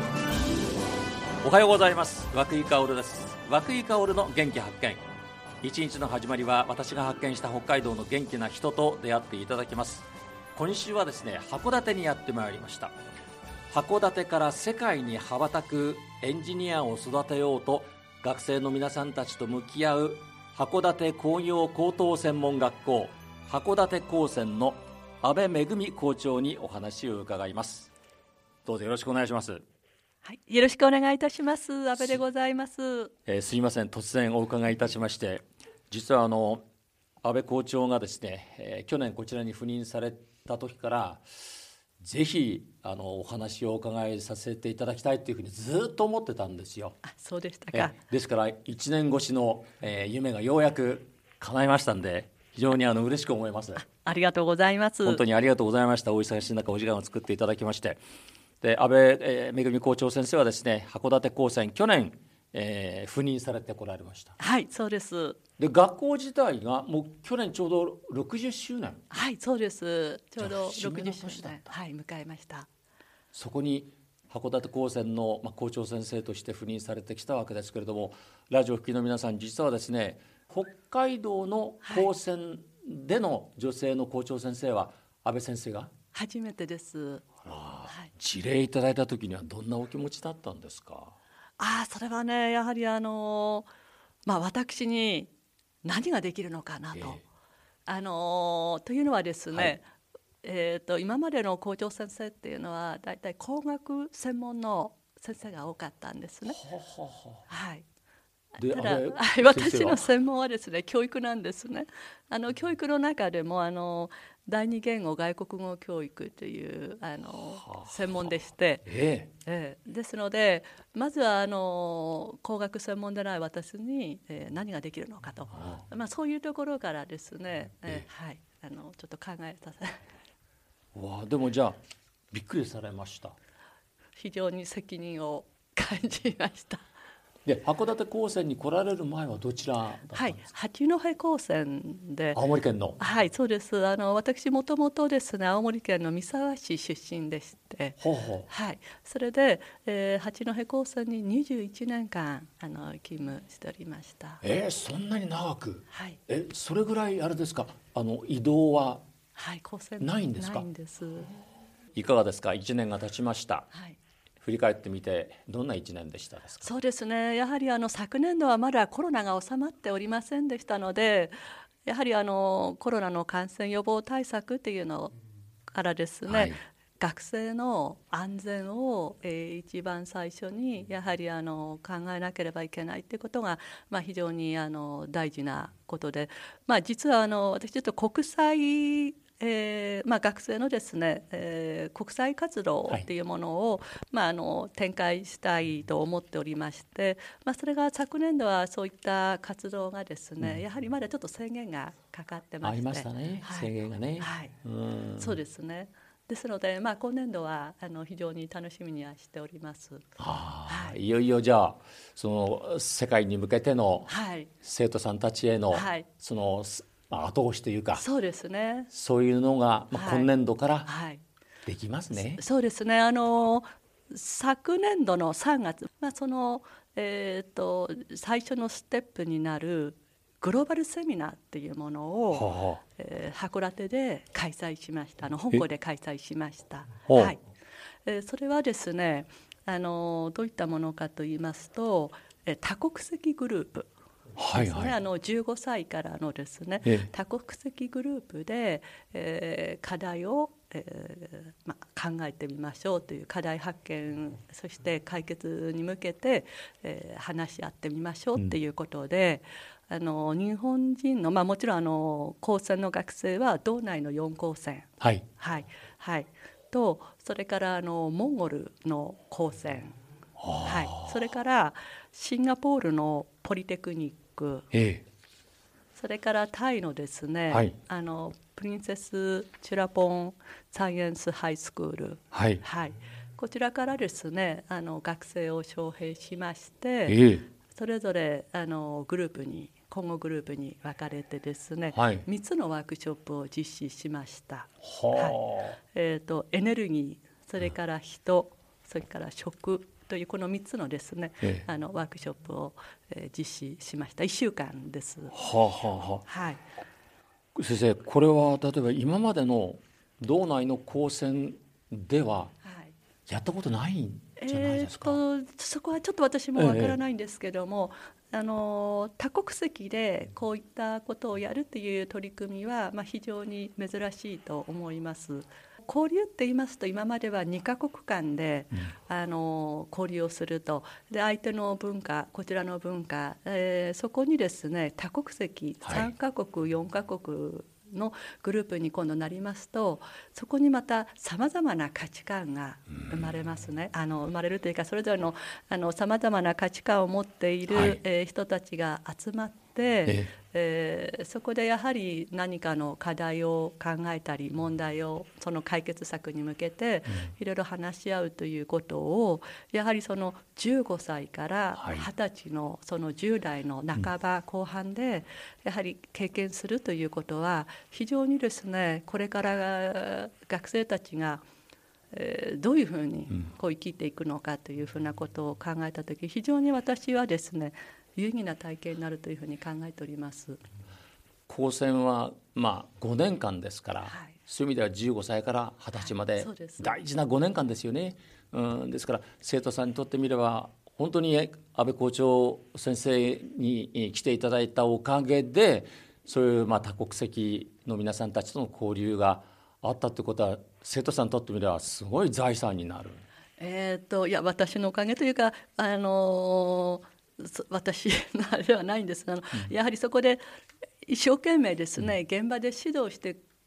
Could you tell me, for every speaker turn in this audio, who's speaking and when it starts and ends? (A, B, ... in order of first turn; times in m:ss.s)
0:01.4-0:05.0 A
0:05.6-0:12.9 A
0:13.7-0:27.9 A
0:28.6-0:29.6 A
0:30.2-0:33.1 B
0:33.2-0:36.6 A
0:37.2-0:41.4 A
0:42.0-0:47.0 A
0:47.0-0:48.0 B
0:47.7-0:53.8 A
0:53.8-0:55.2 B
0:55.0-0:58.0 A
0:58.6-1:04.4 A
1:04.4-1:05.4 B
1:05.6-1:09.0 A
1:09.1-1:12.7 B
1:10.4-1:11.7 A
1:13.3-1:25.9 A
1:21.8-1:22.1 B
1:26.1-1:27.2 B
1:27.4-1:31.2 A
1:31.6-1:33.7 B
1:34.2-1:35.3 B
1:35.8-1:37.2 B
1:36.9-1:37.2 A
1:37.8-1:39.8 B
1:40.4-1:46.6 B
1:46.4-1:47.4 A
1:47.5-1:47.8 B
1:48.6-1:50.1 A
1:48.6-1:58.9 B
1:58.8-1:59.3 A
1:59.4-2:10.0 B
2:10.9-2:11.8 A
2:12.3-2:13.4 A
2:14.2-2:16.9 B
2:17.4-2:20.4 A
2:20.1-2:22.4 B
2:22.3-2:23.0 A
2:23.0-2:34.4 B
2:28.0-2:28.4 A
2:34.4-2:39.0 A
2:35.9-2:36.2 B
2:39.3-2:41.3 B
2:40.0-2:40.6 A
2:41.9-2:43.7 A
2:43.7-2:44.0 B
2:44.4-2:46.7 A
2:46.6-2:51.3 B
2:51.8-2:55.1 B
2:55.7-3:24.6 B
2:56.2-2:56.6 A
3:22.6-3:25.4 A
3:25.2-3:30.0 B
3:30.2-3:38.0 A
3:30.6-3:31.0 B
3:34.1-3:34.5 B
3:35.7-3:36.1 B
3:38.0-3:38.9 B
3:38.9-3:40.9 A
3:39.9-3:40.3 B
3:40.8-3:41.2 B
3:41.6-3:42.4 A
3:42.1-3:57.4 B
3:52.3-3:52.8 A
3:57.1-3:57.3 A
3:58.0-4:03.9 B
4:04.4-4:04.9 A
4:04.5-4:30.0 B
4:06.8-4:07.1 A
4:25.0-4:25.2 A
4:30.4-4:31.0 A
4:30.6-4:34.7 B
4:34.7-4:35.0 A
4:36.0-5:05.3 B
4:37.5-4:37.8 A
4:42.3-4:42.6 A
4:47.1-4:47.4 A
4:51.9-4:52.2 A
4:54.8-4:55.8 A
5:05.3-5:06.2 A
5:06.2-5:06.6 B
5:07.5-5:12.5 A
5:12.6-5:12.9 B
5:13.3-5:15.2 A
5:14.4-6:11.4 B
5:16.5-5:17.0 A
5:35.8-5:36.1 A
5:47.7-5:48.0 A
5:50.0-5:50.3 A
6:01.8-6:02.1 A
6:12.1-6:20.6 B
6:21.5-6:43.2 A
6:24.0-6:24.4 B
6:25.9-6:26.9 B
6:43.6-6:50.4 B
6:51.0-6:53.4 B